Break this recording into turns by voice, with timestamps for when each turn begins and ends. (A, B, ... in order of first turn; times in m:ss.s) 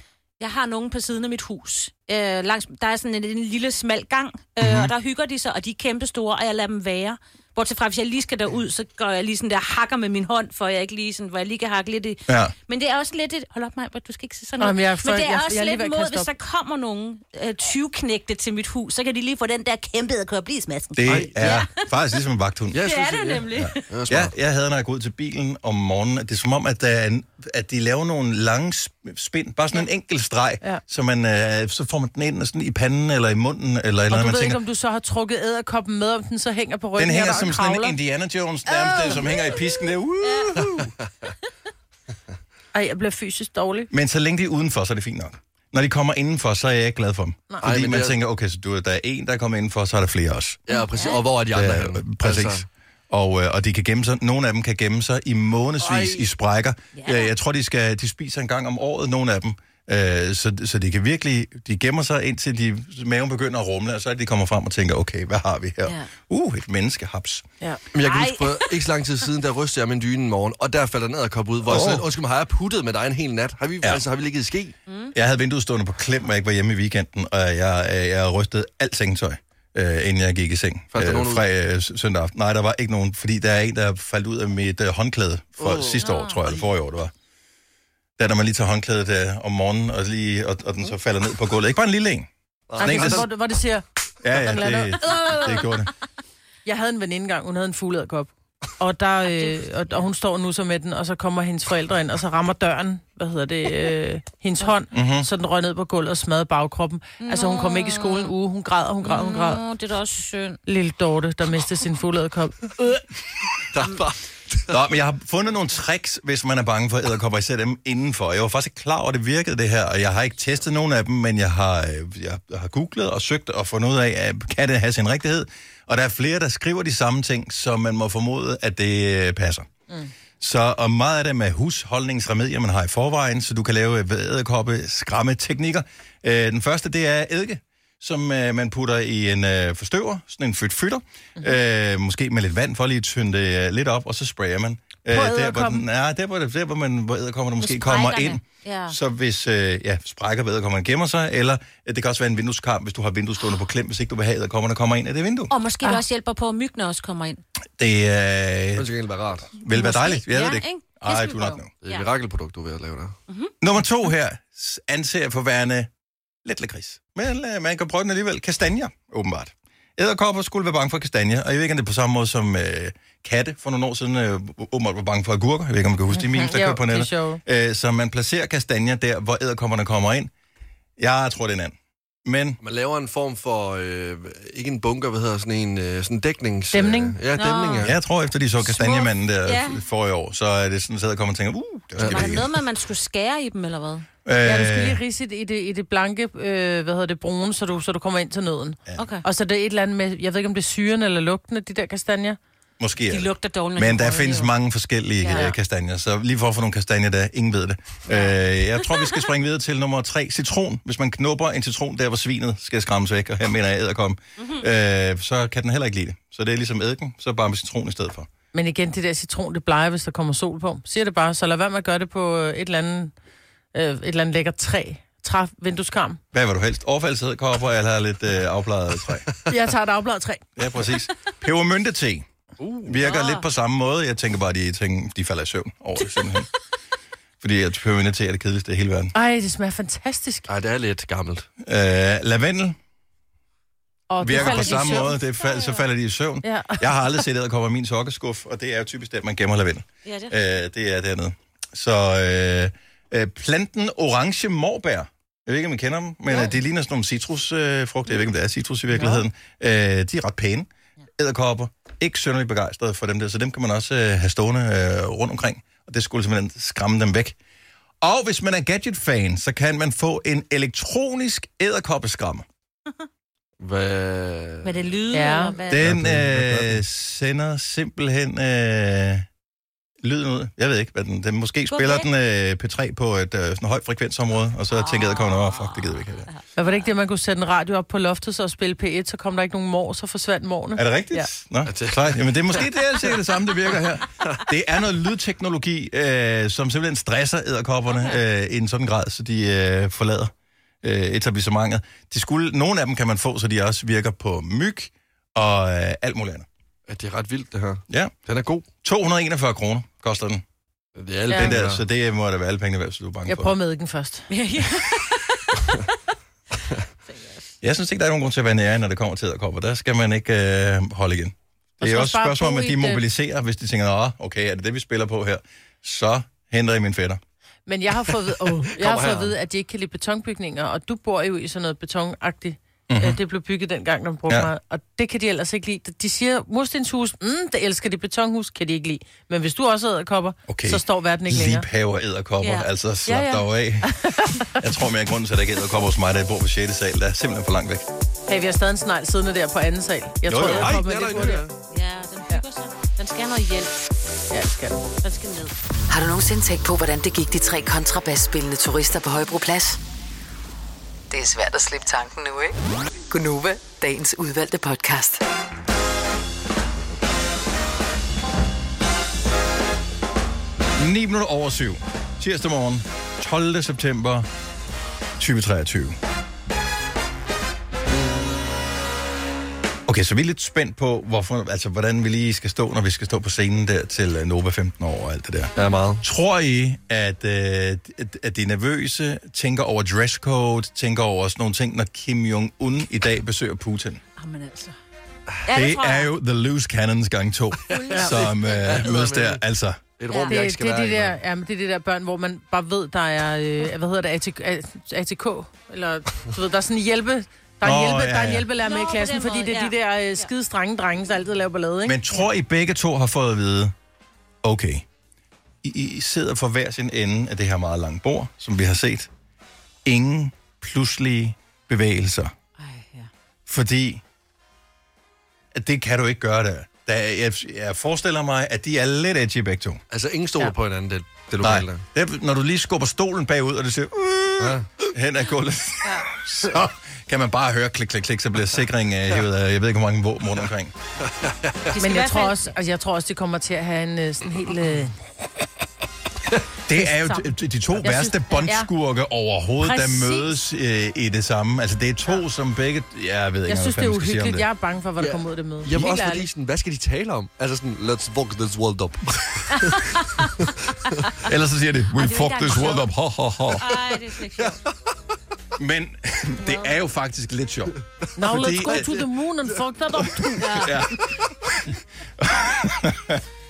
0:00.4-0:21.8 A
0:04.6-0:04.9 B
0:12.3-0:12.5 B
0:14.6-0:16.3 C
0:21.0-0:22.8 B
0:21.0-0:21.3 D
0:22.7-0:24.3 D
0:22.8-0:23.8 A
0:23.6-0:34.6 B
0:34.1-0:38.0 C
0:37.0-0:40.9 B
0:40.2-0:40.5 A
0:42.7-0:43.9 C
0:43.9-0:50.6 B
0:47.6-0:48.2 D
0:50.7-0:52.6 D
0:50.8-0:51.2 A
0:51.5-1:07.4 B
0:55.8-0:56.3 D
0:57.0-0:57.3 A
1:07.9-1:14.8 D
1:08.0-1:08.8 A
1:11.7-1:12.0 B
1:14.9-1:15.1 A
1:15.1-1:27.1 B
1:20.9-1:21.4 D
1:25.6-1:26.0 D
1:26.0-1:26.4 A
1:28.2-1:33.3 B
1:32.7-1:33.3 D
1:32.8-1:35.5 C
1:34.2-1:35.9 B
1:36.6-1:49.6 C
1:44.9-1:45.3 B
1:47.2-1:48.3 A
1:49.0-1:50.6 A
1:50.7-1:53.0 C
1:53.7-1:54.8 D
1:54.7-2:09.7 B
2:10.4-2:35.5 B
2:25.1-2:25.8 C
2:27.6-2:29.0 A
2:35.5-2:37.4 A
2:37.8-2:38.9 B
2:38.8-2:39.5 D
2:39.5-2:41.7 B
2:39.7-2:42.1 A
2:41.8-2:43.2 D
2:43.6-2:45.9 B
2:46.4-3:00.3 B
2:56.1-2:57.4 C
3:01.0-3:02.6 B
3:02.6-3:08.0 D
3:06.7-3:07.2 C
3:07.4-3:07.9 A
3:07.8-3:12.5 B
3:08.6-3:09.8 A
3:12.0-3:12.4 D
3:12.0-3:14.1 A
3:14.2-3:15.0 B
3:14.4-3:22.4 C
3:19.0-3:19.2 A
3:22.8-3:38.3 B
3:23.1-3:24.5 A
3:25.2-3:25.5 A
3:28.1-3:28.4 A
3:34.4-3:34.6 A
3:38.5-3:43.1 C
3:43.7-3:46.2 C
3:46.3-3:49.3 B
3:49.5-3:50.4 C
3:50.6-3:52.3 B
3:52.6-3:53.0 D
3:52.8-3:56.5 B
3:53.0-3:53.4 A
3:57.4-3:59.1 B
3:59.1-4:00.5 C
4:00.5-4:01.5 D
4:01.6-4:02.8 B
4:04.1-4:05.1 C
4:04.2-4:27.4 B
4:04.3-4:05.9 A
4:06.4-4:06.8 C
4:10.0-4:10.4 A
4:18.9-4:19.2 C
4:28.0-4:32.4 B
4:33.6-4:35.0 D
4:34.6-4:35.9 A
4:35.1-4:35.6 C
4:35.7-4:39.3 B
4:35.7-4:36.8 D
4:40.0-4:46.3 B
4:41.7-4:42.1 A
4:44.7-4:46.4 A
4:46.6-4:51.3 C
4:50.8-5:00.3 B
4:51.7-4:53.1 D
5:00.8-5:06.5 B
5:06.9-5:08.7 D
5:08.8-5:10.4 B
5:11.0-5:11.8 D
5:11.4-5:13.5 B
5:13.3-5:14.3 C
5:14.3-5:15.8 A
5:17.1-5:17.5 A
5:17.6-5:27.2 B
5:21.8-5:23.0 C
5:27.7-5:41.7 C
5:28.7-5:29.4 D
5:32.9-5:33.2 B
5:40.5-5:44.0 B
5:42.4-5:42.7 A
5:43.1-5:44.5 C
5:44.6-5:47.9 B
5:48.3-5:51.4 C
5:50.2-5:50.8 B
5:50.4-5:51.6 D
5:51.7-5:53.7 A
5:54.3-5:54.8 C
5:55.0-5:55.5 A
5:55.9-5:59.8 E
6:01.1-6:02.6 E
6:03.1-6:05.2 E
6:10.8-6:14.3 B
6:15.2-6:16.0 B
6:19.9-6:34.0 B
6:25.6-6:26.0 D
6:34.2-6:34.8 A
6:35.4-6:36.1 A
6:35.5-6:39.8 B
6:37.7-6:39.4 D
6:37.7-6:38.9 A
6:40.0-6:41.2 D
6:40.1-6:40.4 A
6:40.3-6:52.0 C
6:47.6-6:48.5 B
6:48.6-6:50.3 A
6:51.8-6:53.7 B
6:54.4-6:54.8 B
6:55.6-6:59.1 B
6:59.8-7:02.3 B
7:02.6-7:03.1 A
7:03.5-7:04.0 B
7:05.5-7:09.8 B
7:09.9-7:11.8 D
7:11.4-7:20.7 B
7:14.4-7:14.7 D
7:21.1-7:21.7 D
7:21.7-7:22.4 A
7:21.8-7:25.0 C
7:26.7-7:34.5 B
7:26.8-7:28.7 C
7:29.6-7:30.2 C
7:33.5-7:36.3 C
7:35.0-7:41.0 D
7:41.2-7:43.7 B
7:42.0-7:42.9 A
7:43.5-7:43.8 D
7:43.6-7:44.6 A
7:45.6-7:49.0 B
7:46.4-7:46.8 A
7:48.2-7:50.6 C
7:48.6-7:49.0 D
7:50.4-7:50.8 A
7:50.5-7:53.2 B